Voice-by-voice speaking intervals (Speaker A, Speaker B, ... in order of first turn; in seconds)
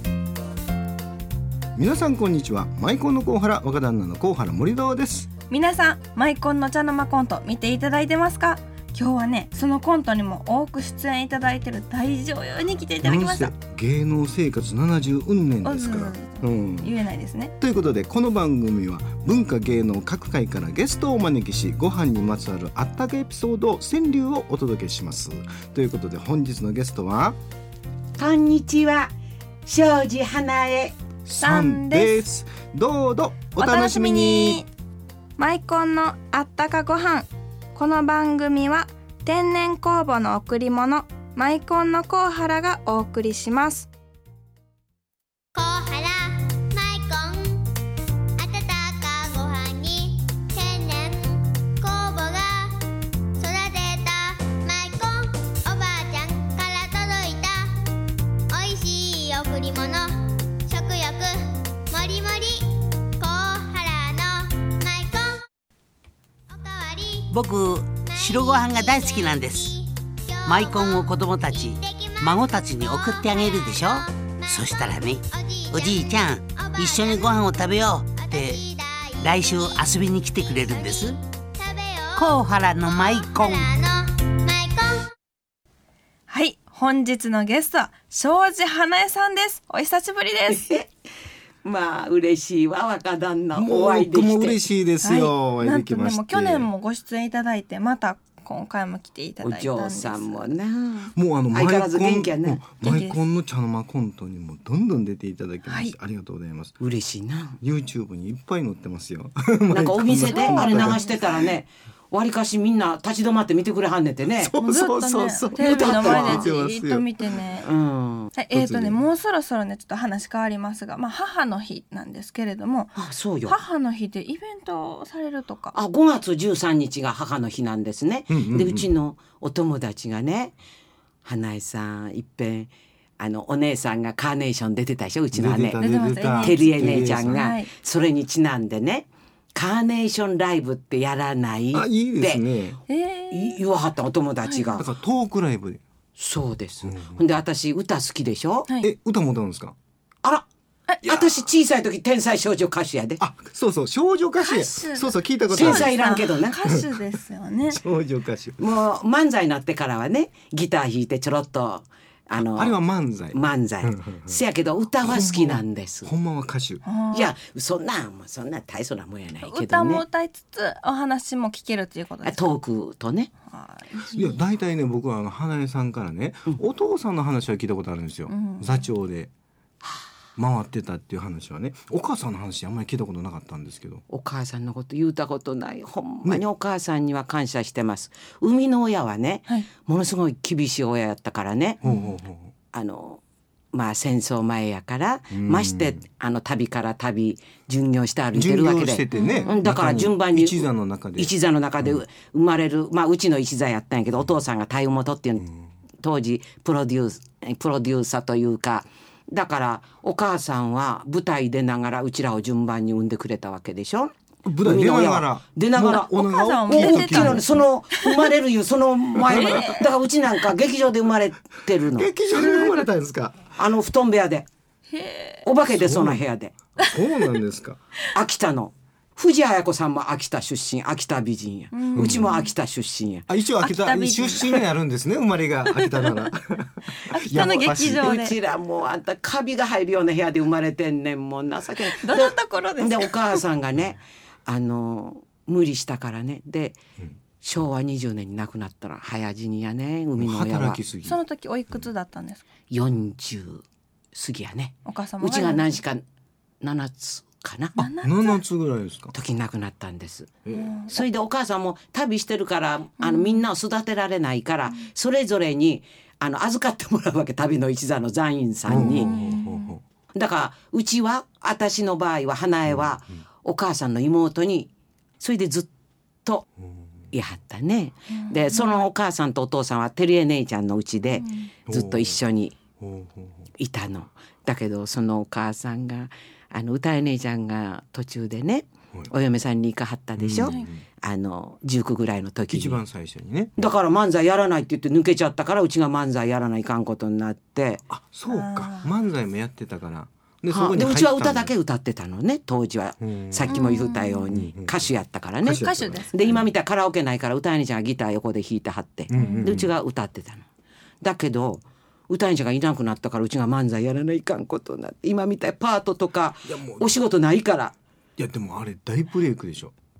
Speaker A: 1.8-5.3, 13.0-16.9, 17.6-27.4, 31.2-34.6, 93.5-96.7, 101.1-106.8, 107.6-111.4, 114.3-117.2, 118.5-119.0, 128.3-128.9, 135.3-137.4, 141.7-142.8, 144.8-145.8, 146.8-147.2, 148.8-149.7, 151.0-151.5, 153.2-156.0, 156.6-156.9, 157.7-158.7, 162.3-164.4, 165.0-166.8, 174.1-179.3, 180.4-184.0, 191.8-192.5, 195.3-196.0, 198.3-202.0, 214.4-217.4, 219.2-219.7, 221.9-223.5, 225.7-226.2, 226.9-227.8, 231.9-232.4, 233.3-238.1, 250.2-251.2, 257.9-259.1, 260.4-260.8, 268.6-269.8, 272.7-273.2, 281.7-282.2, 282.8-283.5, 290.2-290.8, 292.5-293.5, 297.9-301.5, 303.0-303.6, 304.3-304.9, 305.4-306.4, 309.1-309.7, 316.5-316.9, 318.2-319.7
Speaker B: 5.5-13.5, 15.6-17.5, 31.4-32.2, 33.6-34.7, 35.4-43.9, 86.3-90.6, 95.0-100.5, 102.8-103.2, 105.7-105.9, 110.3-111.3, 114.6-117.7, 118.3-125.7, 135.8-137.7, 142.9-143.6, 144.4-144.8, 154.4-157.8, 166.8-167.3, 169.4-172.5, 173.5-174.4, 178.3-178.8, 191.8-192.1, 199.1-199.6, 215.9-218.2, 219.3-219.8, 222.4-222.8, 224.9-225.4, 231.7-232.5, 233.6-234.6, 235.7-236.2, 236.9-238.3, 241.8-243.4, 251.0-252.4, 254.8-255.8, 257.8-258.4, 260.5-261.0, 263.0-263.4, 268.7-269.7, 278.1-278.9, 281.1-281.5, 290.4-290.7, 298.3-298.9, 303.5-304.3, 305.5-306.4, 309.1-309.5
Speaker C: 28.2-29.1, 29.6-30.9, 90.5-90.9, 91.6-94.6, 99.4-102.6, 106.8-107.6, 109.7-114.5, 115.6-116.5, 117.6-118.3, 122.9-123.6, 125.7-130.6, 131.2-135.8, 136.3-142.4, 143.3-144.9, 146.2-148.7, 151.0-153.2, 155.5-156.6, 158.6-162.8, 163.3-166.1, 167.1-170.1, 172.2-173.3, 184.1-191.8, 192.7-193.2, 193.7-205.4, 206.0-216.1, 216.7-222.7, 223.5-224.5, 225.4-226.5, 228.1-233.3, 237.8-246.8, 247.4-250.8, 252.7-256.0, 256.6-257.8, 259.1-260.4, 260.9-269.2, 270.1-275.7, 277.1-282.6, 283.6-292.8, 293.6-297.8, 300.5-310.4, 311.0-317.8
Speaker D: 45.5-47.6, 48.4-52.8, 53.4-57.7, 58.5-61.3, 61.9-65.4, 66.5-67.4, 68.0-85.1
Speaker E: 67.3-69.7, 70.5-78.6, 79.2-81.2, 82.2-83.7